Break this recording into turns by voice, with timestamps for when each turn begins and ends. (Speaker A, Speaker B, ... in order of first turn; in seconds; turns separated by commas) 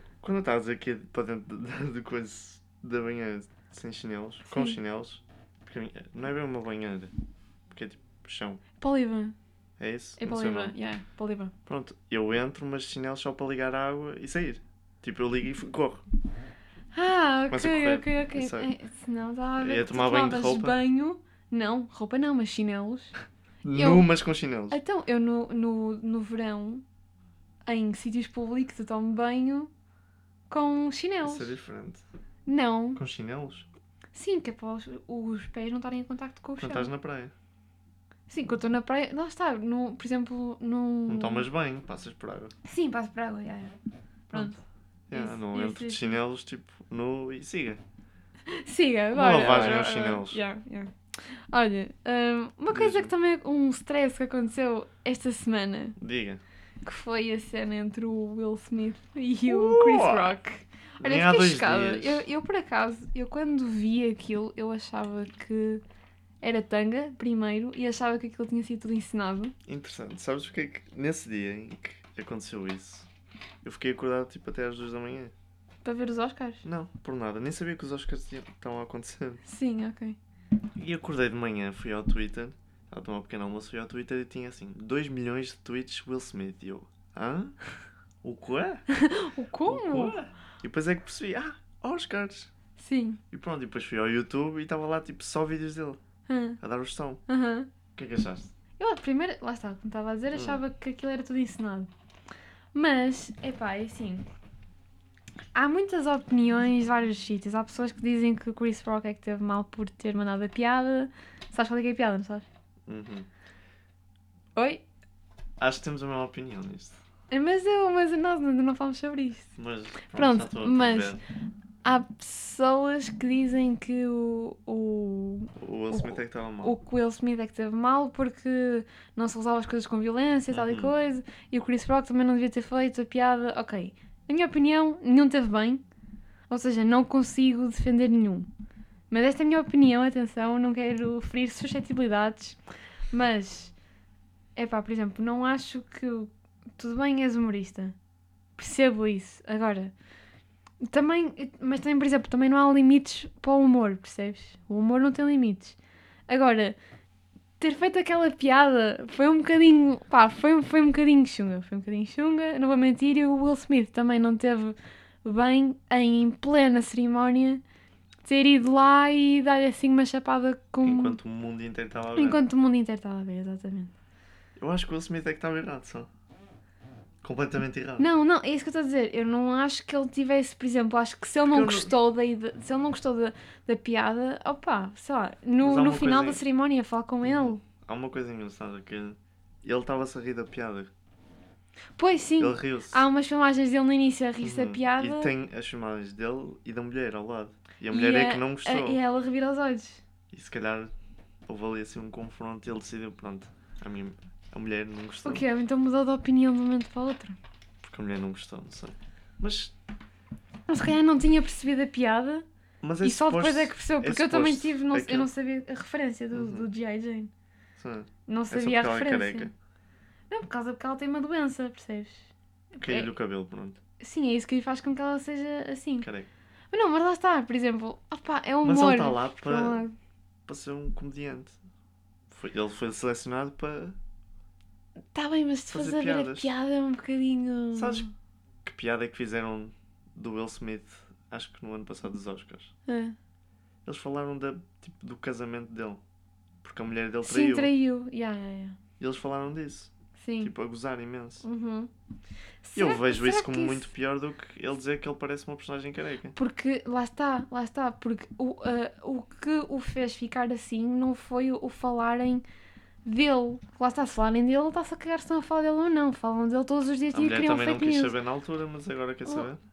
Speaker A: 0.2-7.1, Speaker B: 4.5-4.8, Speaker A: 7.7-8.6, Speaker B: 8.8-9.4, Speaker A: 9.8-10.8, Speaker B: 10.2-11.5, Speaker A: 11.7-16.0, Speaker B: 16.9-23.1, Speaker A: 17.5-18.7, Speaker A: 19.6-20.8, Speaker A: 23.6-24.8, Speaker B: 23.7-24.1, Speaker B: 24.7-26.8, Speaker B: 27.7-29.7, Speaker B: 30.5-31.5, Speaker A: 31.2-32.0, Speaker B: 32.5-33.0, Speaker A: 33.0-33.7, Speaker B: 34.1-36.9, Speaker A: 36.6-37.3, Speaker B: 38.3-41.5, Speaker A: 41.1-42.5, Speaker B: 42.6-43.8, Speaker B: 44.3-44.6, Speaker A: 44.3-44.6, Speaker A: 45.1-47.8, Speaker B: 45.1-46.0, Speaker B: 48.5-56.0, Speaker A: 49.1-50.4, Speaker A: 52.7-53.1, Speaker A: 56.0-56.4, Speaker B: 56.9-65.8, Speaker A: 59.5-60.4, Speaker A: 61.0-62.2, Speaker B: 66.4-69.5, Speaker A: 69.7-73.1, Speaker A: 73.6-75.3, Speaker B: 75.8-76.6, Speaker A: 76.6-79.4, Speaker B: 79.5-80.2, Speaker A: 80.8-87.6, Speaker A: 88.2-88.8, Speaker B: 88.9-90.2, Speaker A: 89.7-92.5, Speaker B: 92.8-93.2, Speaker A: 93.3-96.0, Speaker B: 96.3-96.6, Speaker A: 96.6-97.2, Speaker B: 97.3-97.7, Speaker A: 98.0-98.5, Speaker B: 98.8-101.9, Speaker A: 100.3-100.6, Speaker B: 102.7-104.3, Speaker B: 105.5-112.5, Speaker A: 112.9-113.3, Speaker B: 114.6-114.8, Speaker A: 115.6-117.0, Speaker B: 117.3-119.5, Speaker A: 119.6-121.2, Speaker B: 120.1-121.2, Speaker B: 121.8-135.8, Speaker A: 125.6-126.8, Speaker A: 130.5-130.9, Speaker B: 136.5-138.5, Speaker B: 139.1-142.6, Speaker B: 143.1-143.7, Speaker B: 144.6-147.9, Speaker B: 148.6-149.9, Speaker B: 150.8-155.8, Speaker B: 156.3-156.8, Speaker B: 157.6-167.6, Speaker B: 168.2-171.2, Speaker A: 170.8-172.4, Speaker B: 172.2-173.9, Speaker A: 174.6-176.1, Speaker A: 177.2-178.1, Speaker B: 178.0-187.6, Speaker A: 181.5-181.9, Speaker A: 185.6-186.4, Speaker A: 187.2-190.9, Speaker B: 192.0-195.3, Speaker A: 192.4-193.0, Speaker A: 194.4-199.0, Speaker B: 197.9-200.0, Speaker A: 200.3-200.9, Speaker A: 201.5-205.4, Speaker B: 205.2-207.4, Speaker A: 207.8-209.7, Speaker B: 210.7-212.5, Speaker A: 212.8-215.3, Speaker B: 213.0-217.3, Speaker A: 216.3-216.7, Speaker A: 217.8-219.5, Speaker B: 218.3-219.5, Speaker B: 220.3-223.1, Speaker A: 222.8-223.8, Speaker B: 224.0-226.1, Speaker A: 226.0-226.3, Speaker B: 226.7-229.9, Speaker A: 228.6-229.8, Speaker A: 230.5-231.6, Speaker A: 232.3-234.0, Speaker B: 235.1-238.1, Speaker A: 235.7-236.5, Speaker A: 237.8-238.1, Speaker A: 238.6-242.7, Speaker B: 242.9-243.2, Speaker A: 243.8-246.0, Speaker A: 246.6-247.7, Speaker B: 247.2-248.8, Speaker A: 249.0-251.4, Speaker B: 250.2-250.5, Speaker B: 251.4-251.9, Speaker B: 252.6-253.9, Speaker A: 252.8-256.3, Speaker B: 256.4-262.4, Speaker B: 263.0-268.2, Speaker A: 267.1-269.6